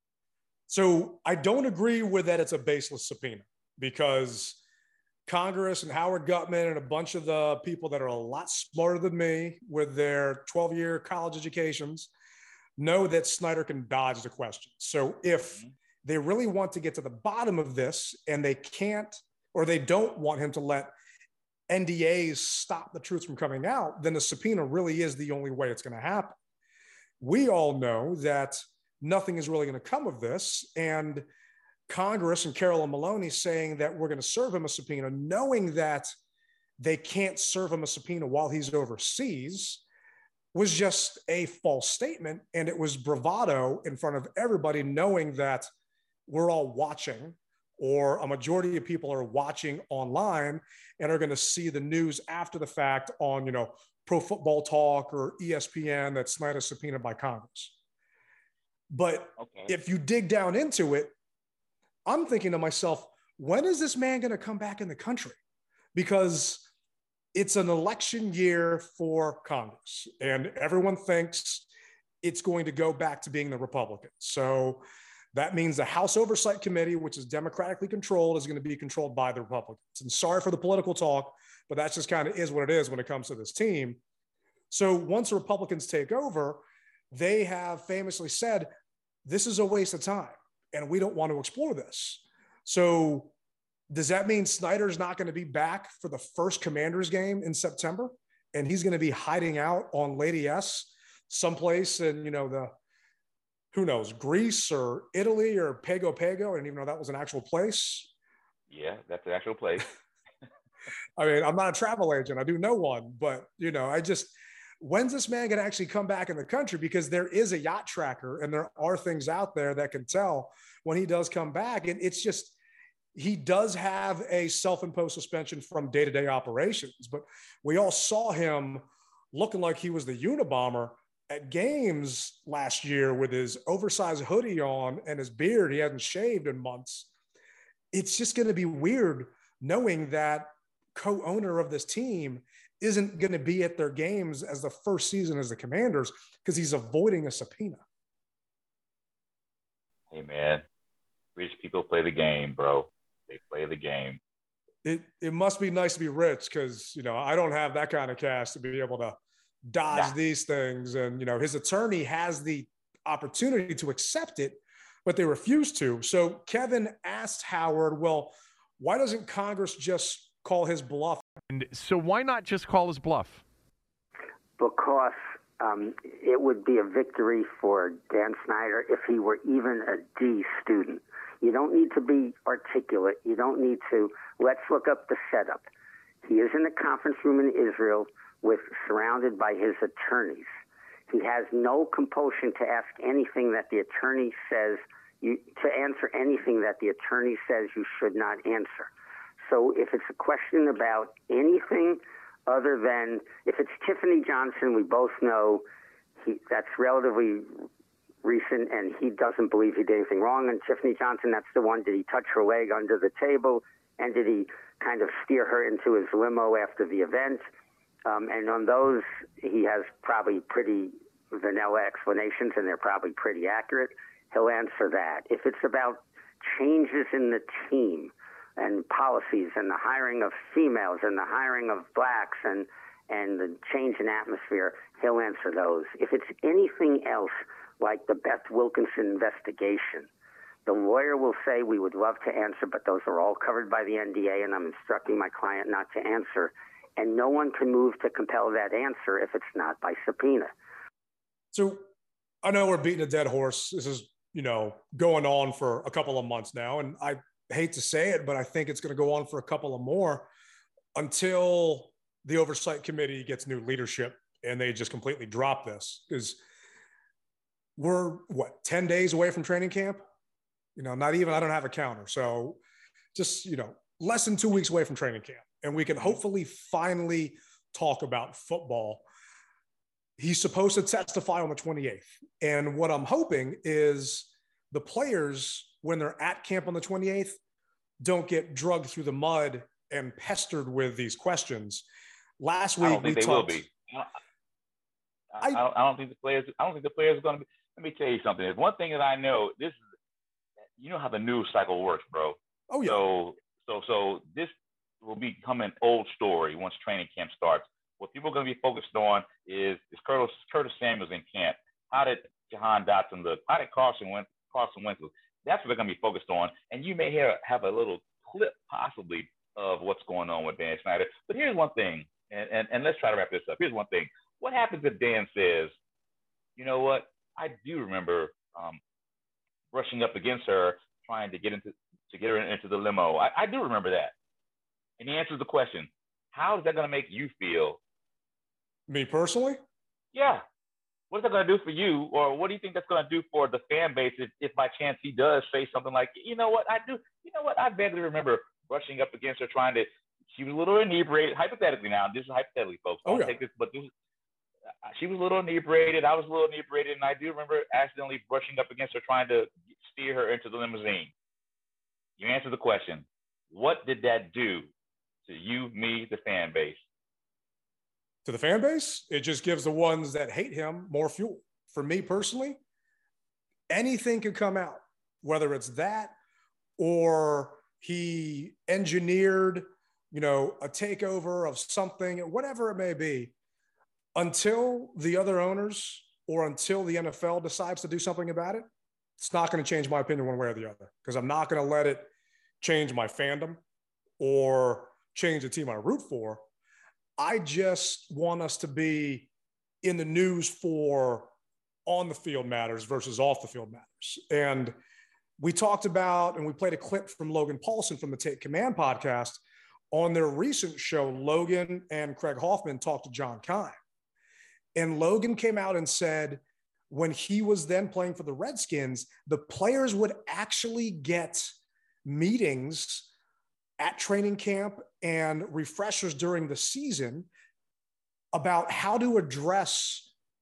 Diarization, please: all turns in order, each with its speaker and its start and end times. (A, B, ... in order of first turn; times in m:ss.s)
0:00.7-0:04.6 A
0:05.3-0:12.1 A
0:12.8-0:20.9 A
0:21.7-0:26.4 A
0:27.2-0:31.2 A
0:31.9-0:36.1 A
0:36.8-0:39.8 A
0:40.5-0:45.7 A
0:46.3-0:57.7 A
0:58.9-1:01.1 A
0:59.4-0:59.7 B
1:02.1-1:05.4 A
1:05.9-1:06.7 A
1:07.3-1:11.7 A
1:12.2-1:24.0 A
1:24.7-1:28.7 A
1:29.2-1:33.3 A
1:33.9-1:42.7 A
1:43.7-1:48.1 A
1:48.7-1:49.9 B
1:51.2-2:02.6 A
2:03.1-2:17.1 A
2:17.9-2:27.8 A
2:30.1-2:30.6 B
2:31.4-2:34.2 B
2:34.8-2:51.3 A
2:51.5-2:53.4 C
2:54.6-3:05.6 D
3:06.2-3:10.5 D
3:11.1-3:18.9 D
3:19.4-3:25.6 D
3:26.2-3:27.7 D
3:28.2-3:37.4 D
3:38.0-4:00.1 D
4:00.6-4:10.5 D
4:11.5-4:11.8 A
4:12.4-4:20.3 A
4:20.9-4:26.4 A
4:27.8-4:30.0 A
4:30.8-4:32.6 A
4:33.1-4:39.0 A
4:40.2-4:47.4 A
4:48.0-4:51.8 A
4:52.4-4:53.6 A
4:52.8-4:54.1 B
4:55.3-4:59.8 B
5:00.8-5:25.7 B
5:02.7-5:03.0 A
5:26.6-5:28.8 B
5:29.7-5:34.1 B
5:35.0-5:37.8 B
5:38.9-5:39.6 A
5:40.1-5:40.4 B
5:41.1-5:53.9 B
5:53.0-5:53.3 A
5:54.8-6:01.1 B
6:02.2-6:04.7 B
6:05.2-6:06.8 B
6:08.2-6:12.6 A
6:13.7-6:16.1 A
6:16.8-6:23.3 A
6:24.1-6:28.6 A
6:29.2-6:32.1 A
6:32.6-6:33.6 A
6:34.2-6:36.4 A
6:37.2-6:39.3 A
6:39.8-6:41.3 A
6:41.8-6:44.7 A
6:45.4-6:49.4 A
6:49.9-6:53.8 A
6:54.7-7:01.5 A
7:02.0-7:03.1 A
7:03.8-7:07.3 A
7:08.3-7:10.1 A